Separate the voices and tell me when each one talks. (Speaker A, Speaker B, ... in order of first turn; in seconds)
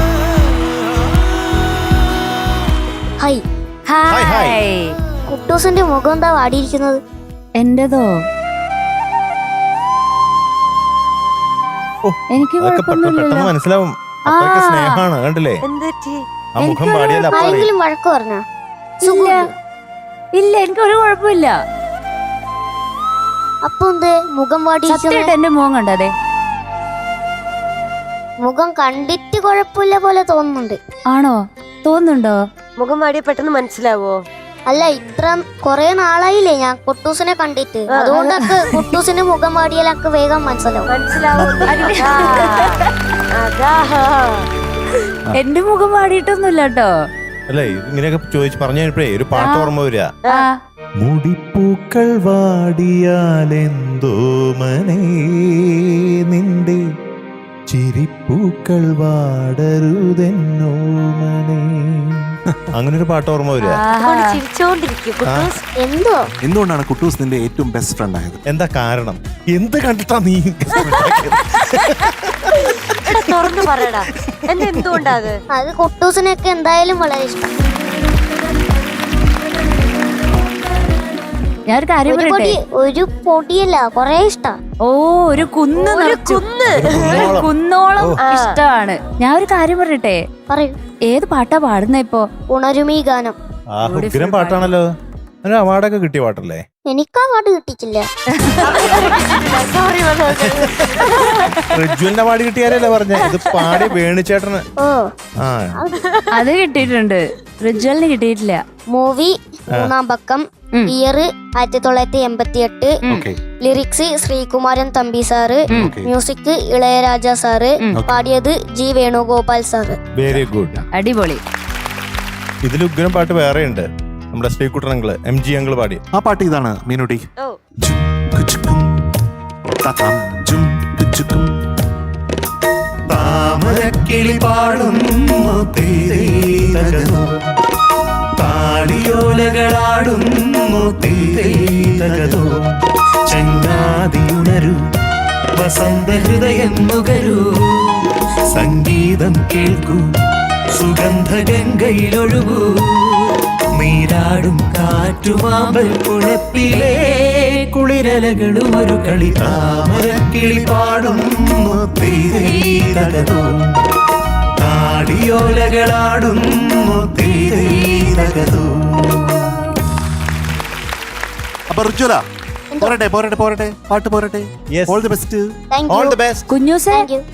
Speaker A: 3.9-4.9, 7.6-8.1, 12.3-13.5, 14.3-15.0, 16.6-17.5, 19.0-19.5, 20.3-21.5, 24.9-26.1, 31.1-32.4, 38.1-38.8, 41.5-42.9, 45.3-46.9, 49.4-49.7, 63.6-64.3, 81.7-82.5, 84.8-86.4, 87.0-90.2, 91.1-92.3, 93.8-94.7, 106.3-108.6, 120.9-121.4, 176.5-177.1
Speaker B: 4.1-4.6, 12.0-15.6, 16.6-17.7, 47.5-50.1, 51.0-56.8, 57.7-62.2, 62.7-63.8, 68.5-72.8, 86.7-88.2, 93.8-94.8, 95.4-96.6, 101.7-104.6, 105.4-105.7, 120.2-120.8, 122.6-126.0, 174.7-175.0, 175.9-176.4
Speaker C: 5.3-7.0, 17.3-18.4, 19.0-19.5, 23.6-25.3, 28.4-30.8, 34.7-40.9, 65.8-66.2, 75.5-77.5, 82.1-84.6, 90.5-90.8, 92.5-93.3, 96.9-98.1, 104.8-105.1, 108.9-113.0, 113.6-120.0, 172.7-173.0, 175.7-176.2, 176.9-177.2
Speaker D: 15.6-16.2, 32.8-34.2, 40.9-42.8, 43.4-44.5, 64.0-65.6, 70.8-71.1, 72.9-75.4, 85.8-87.3, 88.2-88.6, 98.6-101.6, 103.3-103.9
Speaker E: 66.4-68.4, 113.1-113.4, 115.7-116.1, 126.1-127.2, 127.8-129.0, 129.8-131.5, 133.1-137.3, 138.4-142.7, 143.3-144.8, 145.6-147.9, 148.5-150.0, 150.7-153.2, 153.8-163.7, 164.6-169.3, 171.7-172.2, 172.8-175.5